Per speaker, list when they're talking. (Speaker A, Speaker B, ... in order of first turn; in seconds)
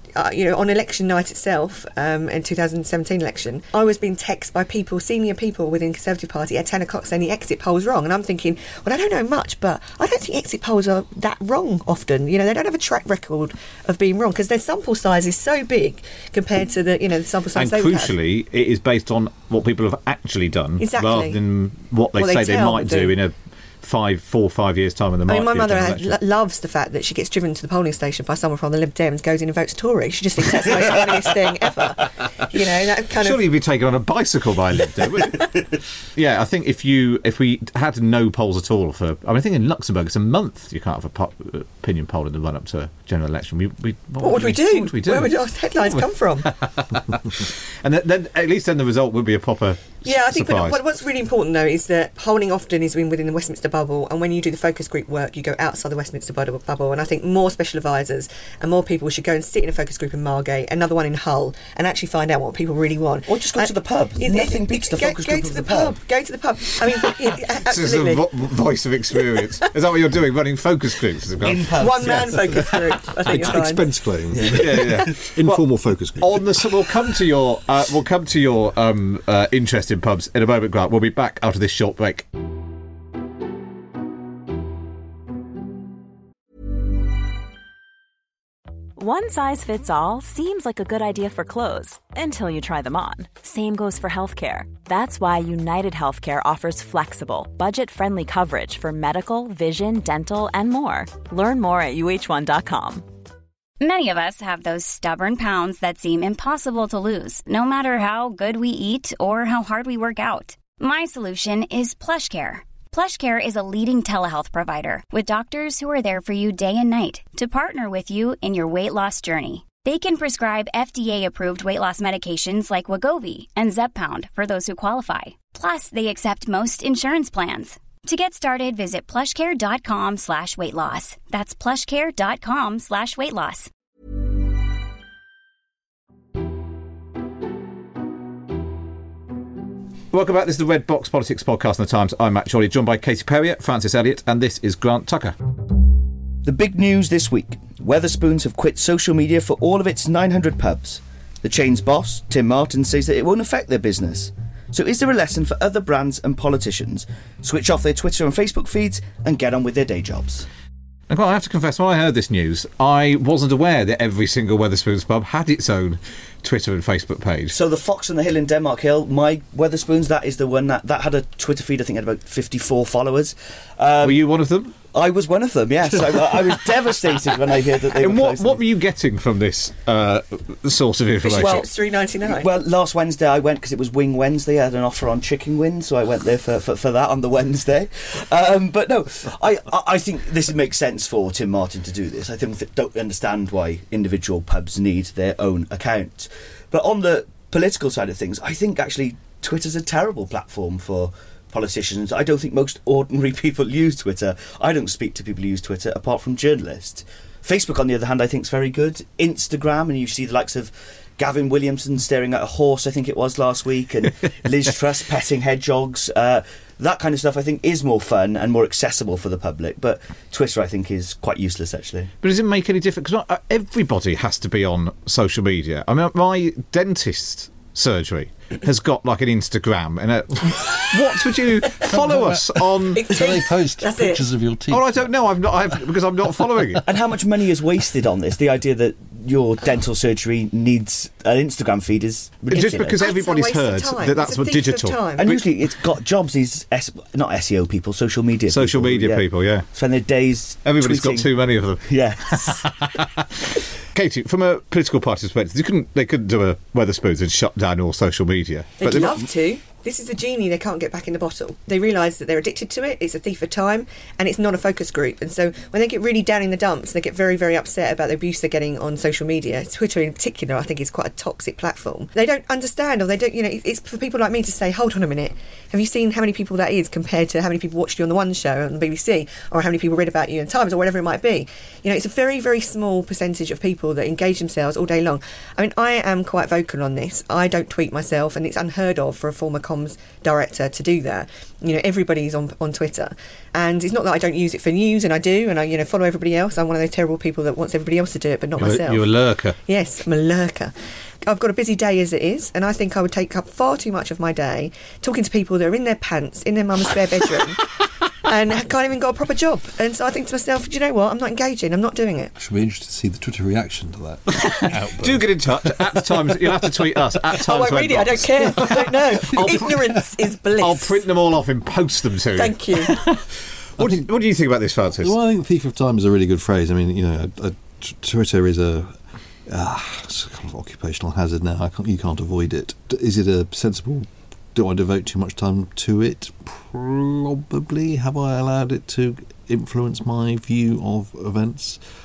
Speaker A: 0.2-18.1, 20.8-21.4, 22.1-23.1, 25.3-33.4, 44.2-46.5, 50.0-68.3, 71.8-73.8, 181.2-182.5, 232.9-234.2, 242.5-245.3, 258.8-299.1, 299.6-312.3, 317.4-321.0, 322.4-323.0
Speaker B: 17.6-26.2, 33.2-35.5, 36.2-45.3, 45.9-50.8, 67.7-71.9, 74.5-75.6, 76.2-82.3, 140.1-145.3, 161.1-167.6, 174.0-174.8, 177.9-181.7, 222.2-233.0, 234.7-236.8, 242.5-245.5, 248.5-249.7, 250.7-259.2, 298.6-299.6, 314.5-319.7, 320.6-323.2, 323.8-325.2
Speaker C: 63.3-66.0, 71.4-72.6, 74.4-74.9, 146.4-160.5, 167.5-174.3, 174.9-178.6, 182.2-222.1, 236.8-243.0, 245.2-251.3, 251.9-252.8
Speaker D: 73.2-77.0, 231.8-235.1, 236.3-236.8, 312.4-317.1, 318.5-319.9, 323.8-324.1, 325.0-329.0, 329.5-341.8
Speaker E: 89.0-103.1
Speaker F: 103.8-133.7